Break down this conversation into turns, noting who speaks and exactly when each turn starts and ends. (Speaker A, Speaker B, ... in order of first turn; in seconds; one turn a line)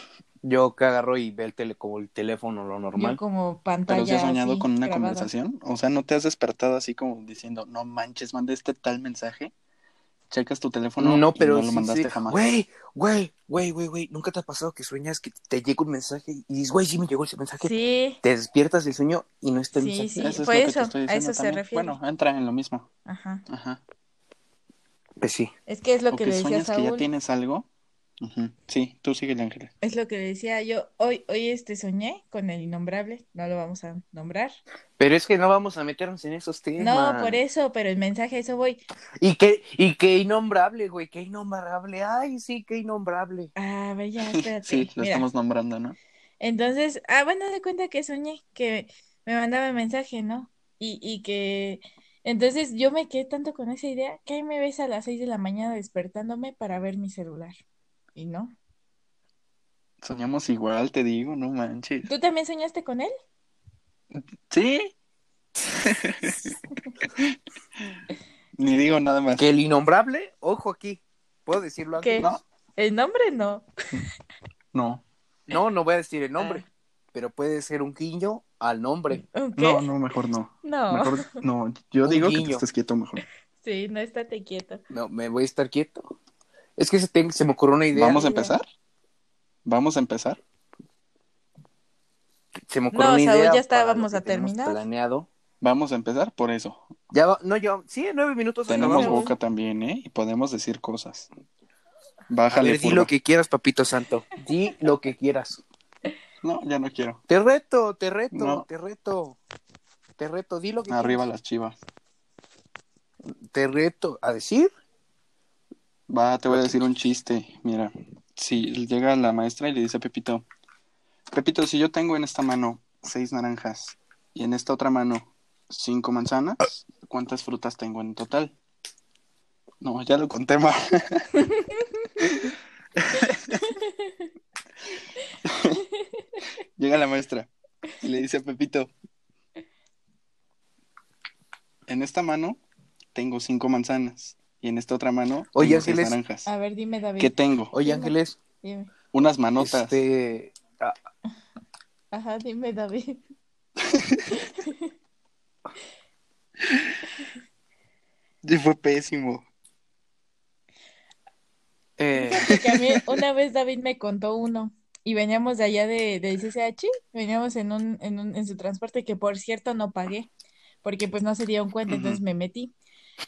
Speaker A: 0.4-3.2
Speaker B: 3.0-5.3
Speaker C: 3.9-9.5
Speaker C: 10.3-12.4
Speaker A: 11.0-17.7
Speaker B: 17.6-18.2
Speaker A: 18.2-20.4
Speaker B: 19.7-22.0
Speaker C: 20.2-22.9
Speaker B: 23.1-23.4
Speaker C: 23.5-23.8
Speaker A: 25.2-25.5
Speaker B: 25.7-27.1
Speaker C: 26.1-27.7
Speaker C: 28.2-29.7
Speaker B: 29.8-34.5
Speaker A: 35.0-37.4
Speaker B: 36.8-38.8
Speaker A: 39.2-43.5
Speaker B: 43.5-45.2
Speaker C: 44.6-46.0
Speaker B: 46.4-57.6
Speaker B: 58.1-58.5
Speaker C: 60.0-62.1
Speaker B: 62.0-63.1
Speaker C: 64.1-64.9
Speaker C: 65.7-66.5
Speaker C: 68.6-69.4
Speaker A: 69.4-72.4
Speaker B: 72.0-73.7
Speaker C: 74.7-75.0
Speaker A: 75.5-79.2
Speaker B: 79.1-79.9
Speaker C: 79.6-83.2
Speaker B: 80.6-81.4
Speaker A: 82.0-82.6
Speaker B: 83.6-84.8
Speaker A: 84.9-86.0
Speaker A: 86.8-88.2
Speaker C: 87.9-88.6
Speaker B: 88.1-88.5
Speaker C: 89.6-90.4
Speaker A: 92.7-95.3
Speaker B: 92.9-94.8
Speaker C: 95.6-96.8
Speaker A: 97.1-99.3
Speaker C: 98.7-101.3
Speaker B: 98.7-99.3
Speaker C: 102.3-103.1
Speaker A: 102.5-105.6
Speaker C: 106.4-107.2
Speaker A: 107.3-109.4
Speaker C: 108.3-108.7
Speaker A: 110.2-111.2
Speaker C: 110.9-111.8
Speaker A: 113.2-114.7
Speaker C: 116.1-120.5
Speaker A: 116.5-116.8
Speaker C: 121.3-128.5
Speaker C: 129.8-131.3
Speaker C: 132.2-133.7
Speaker C: 135.4-135.8
Speaker C: 136.8-137.5
Speaker C: 138.0-138.9
Speaker C: 141.9-142.6
Speaker C: 143.1-146.4
Speaker A: 145.5-146.2
Speaker B: 146.4-148.9
Speaker C: 147.2-147.7
Speaker A: 147.7-148.4
Speaker C: 149.1-150.0
Speaker A: 149.6-150.9
Speaker B: 152.1-153.2
Speaker C: 153.8-154.2
Speaker B: 154.6-154.9
Speaker C: 158.4-159.4
Speaker C: 162.0-163.2
Speaker B: 162.1-170.3
Speaker B: 170.8-172.7
Speaker C: 171.9-172.2